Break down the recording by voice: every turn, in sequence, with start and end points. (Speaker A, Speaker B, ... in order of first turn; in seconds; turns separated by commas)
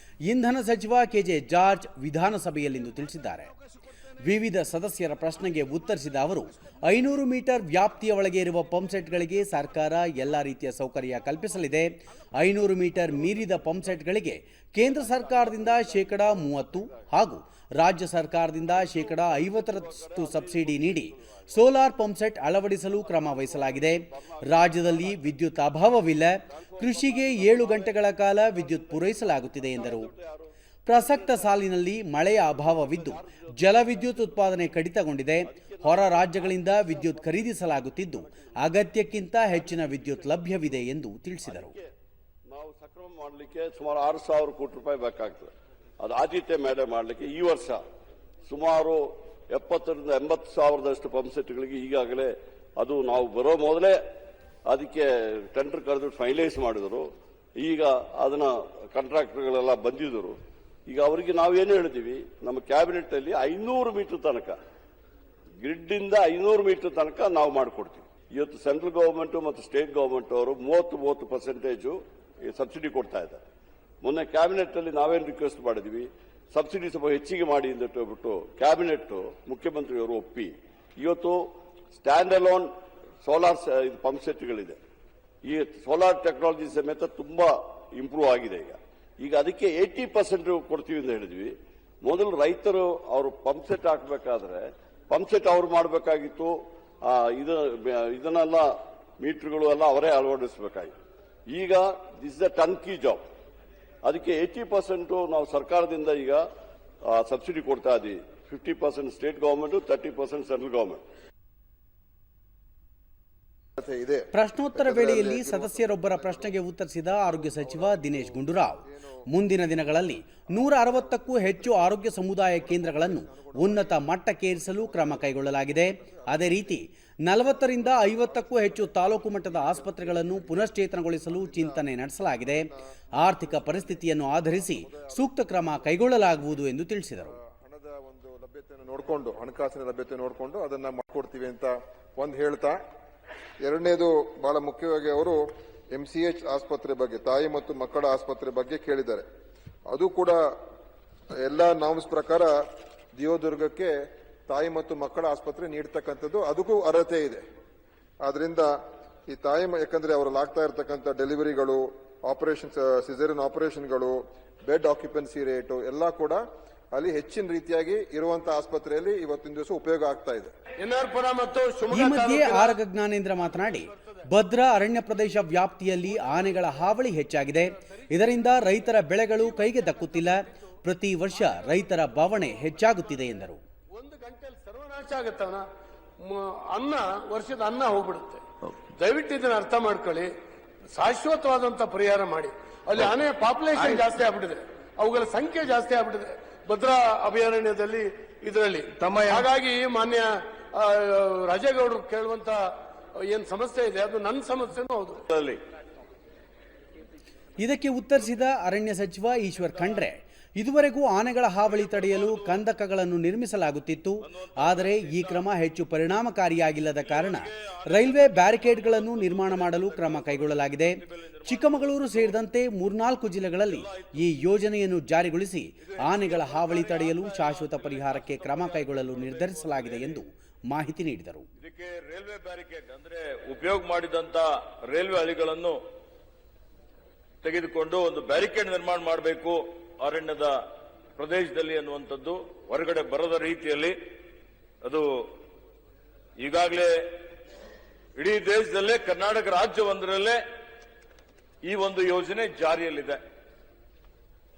Speaker A: 0.3-3.5, Speaker A: 4.2-30.1, Speaker B: 15.0-17.0, Speaker B: 18.7-21.4, Speaker B: 22.8-25.3, Speaker B: 26.4-31.6, Speaker A: 30.9-41.7, Speaker B: 32.5-34.4, Speaker B: 35.5-37.4, Speaker B: 39.8-40.5, Speaker B: 41.5-41.9, Speaker B: 42.5-47.8, Speaker B: 48.5-54.0, Speaker B: 54.7-57.1, Speaker B: 57.6-64.6, Speaker B: 65.6-73.4, Speaker B: 74.0-82.7, Speaker B: 83.2-84.8, Speaker B: 85.5-91.5, Speaker B: 92.0-96.5, Speaker B: 97.0-100.9, Speaker B: 101.5-103.2, Speaker B: 104.0-106.4, Speaker B: 107.1-111.0, Speaker C: 113.8-116.6, Speaker A: 114.3-132.7, Speaker C: 117.1-119.1, Speaker C: 120.5-126.8, Speaker C: 127.6-131.8, Speaker C: 132.6-135.9, Speaker A: 133.2-137.3, Speaker C: 137.2-142.8, Speaker C: 143.6-149.2, Speaker C: 149.9-150.4, Speaker C: 151.4-152.6, Speaker C: 153.2-153.9, Speaker C: 154.5-157.4, Speaker C: 158.2-158.7, Speaker C: 159.3-166.4, Speaker C: 166.9-170.5, Speaker D: 170.8-172.8, Speaker A: 171.9-183.6, Speaker D: 173.7-174.0, Speaker D: 176.2-176.7, Speaker D: 177.9-178.6, Speaker D: 179.5-180.5, Speaker D: 183.9-185.6, Speaker D: 186.2-190.3, Speaker D: 190.9-202.6, Speaker D: 203.2-205.2, Speaker E: 205.3-205.6, Speaker A: 207.6-231.5, Speaker E: 211.7-212.6, Speaker E: 214.2-215.4, Speaker E: 217.0-222.3, Speaker E: 223.6-224.3, Speaker E: 225.8-230.2, Speaker E: 231.6-235.8, Speaker E: 237.4-240.6, Speaker E: 241.2-244.0, Speaker E: 244.8-245.2, Speaker E: 246.4-247.1, Speaker E: 248.2-250.4, Speaker E: 251.6-253.2